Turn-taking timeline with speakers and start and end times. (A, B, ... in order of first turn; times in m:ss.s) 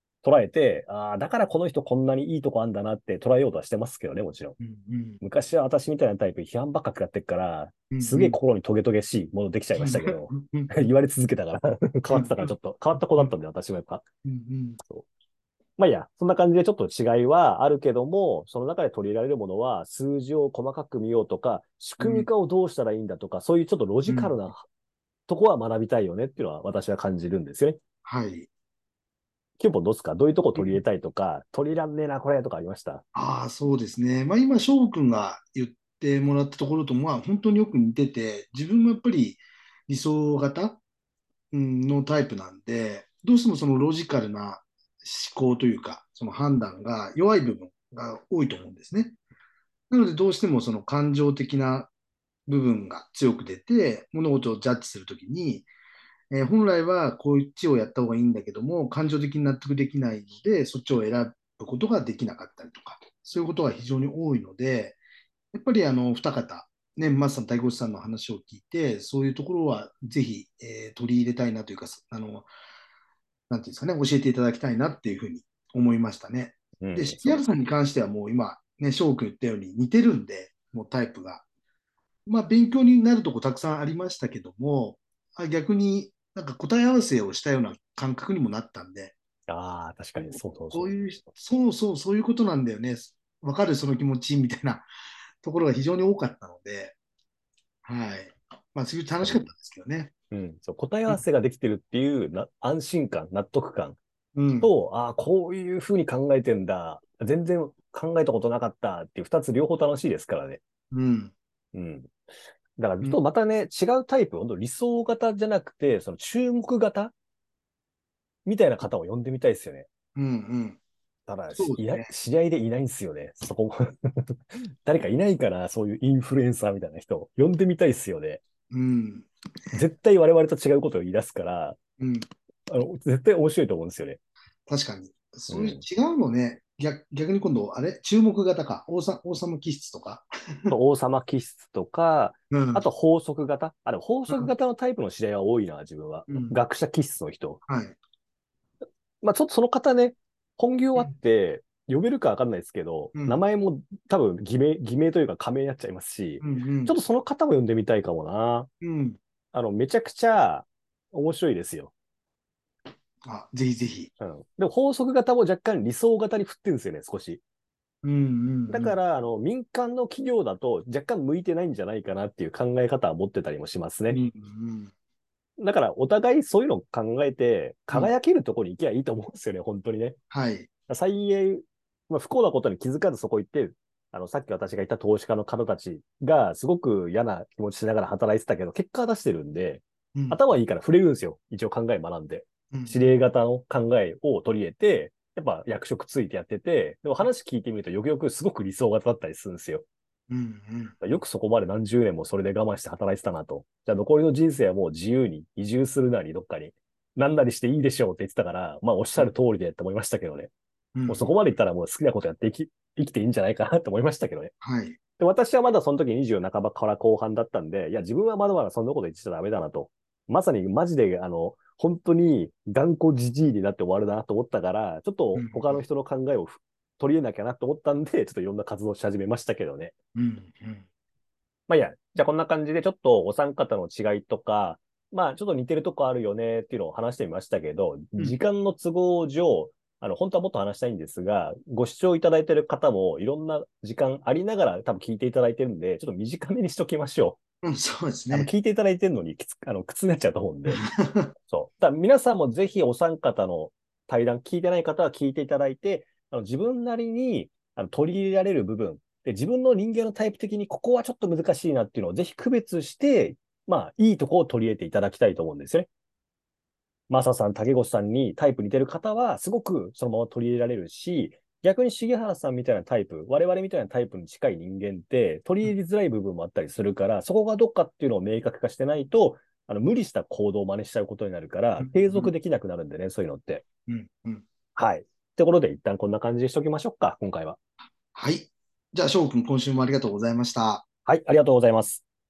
0:00.2-0:04.6 A
0:04.6-0:05.2 B
0:05.2-0:14.0 A
0:07.9-0:08.4 B
0:09.8-0:10.7 B
0:12.1-0:12.5 B
0:14.2-0:14.8 B
0:14.8-0:15.1 A
0:15.8-0:24.6 A
0:22.0-0:22.3 B
0:24.1-0:24.4 B
0:25.3-0:27.8 A
0:28.0-0:28.5 B
0:29.6-0:33.0 A
0:33.1-0:40.8 B
0:41.5-0:49.2 B
0:49.9-0:51.9 B
0:52.5-0:55.7 B
0:56.3-1:05.0 B
1:05.5-1:12.5 B
1:13.5-1:21.4 B
1:16.8-1:17.4 A
1:22.3-1:29.1 B
1:29.5-1:30.9 A
1:30.2-1:34.9 B
1:35.4-1:36.9 B
1:37.8-1:40.1 B
1:39.2-1:39.5 A
1:40.3-1:44.0 A
1:44.3-1:44.7 B
1:44.6-1:50.6 A
1:50.9-1:51.3 B
1:51.7-1:52.1 A
1:52.8-1:57.1 A
1:58.4-1:59.9 A
2:00.1-2:00.8 B
2:01.3-2:08.4 A
2:01.5-2:02.1 B
2:08.7-2:09.8 B
2:09.7-2:11.8 A
2:12.0-2:12.3 B
2:12.7-2:14.2 A
2:14.7-2:20.7 B
2:15.5-2:15.8 A
2:20.7-2:27.6 A
2:22.5-2:22.8 B
2:26.3-2:26.5 B
2:27.6-2:28.0 B
2:29.2-2:38.7 A
2:36.4-2:37.0 B
2:38.8-2:39.2 B
2:39.5-2:41.9 A
2:43.2-2:44.1 B
2:44.2-2:47.4 A
2:48.0-2:49.0 B
2:48.7-2:54.2 A
2:54.1-2:54.9 B
2:55.6-3:00.2 A
3:00.3-3:00.7 B
3:00.9-3:19.8 A
3:12.7-3:13.1 B
3:20.3-3:21.0 B
3:21.0-3:30.5 A
3:30.9-3:31.3 B
3:31.1-3:34.5 A
3:34.6-3:35.0 B
3:35.2-3:49.9 A
3:45.4-3:45.8 B
3:50.1-3:50.8 B
3:51.7-4:07.4 A
4:07.6-4:08.5 B
4:08.3-4:10.8 A
4:10.7-4:11.3 B
4:11.5-4:25.9 A
4:27.1-4:43.6 A
4:41.8-4:42.3 B
4:43.9-4:44.4 B
4:44.8-4:47.6 A
4:48.1-4:50.8 B
4:51.0-4:52.0 A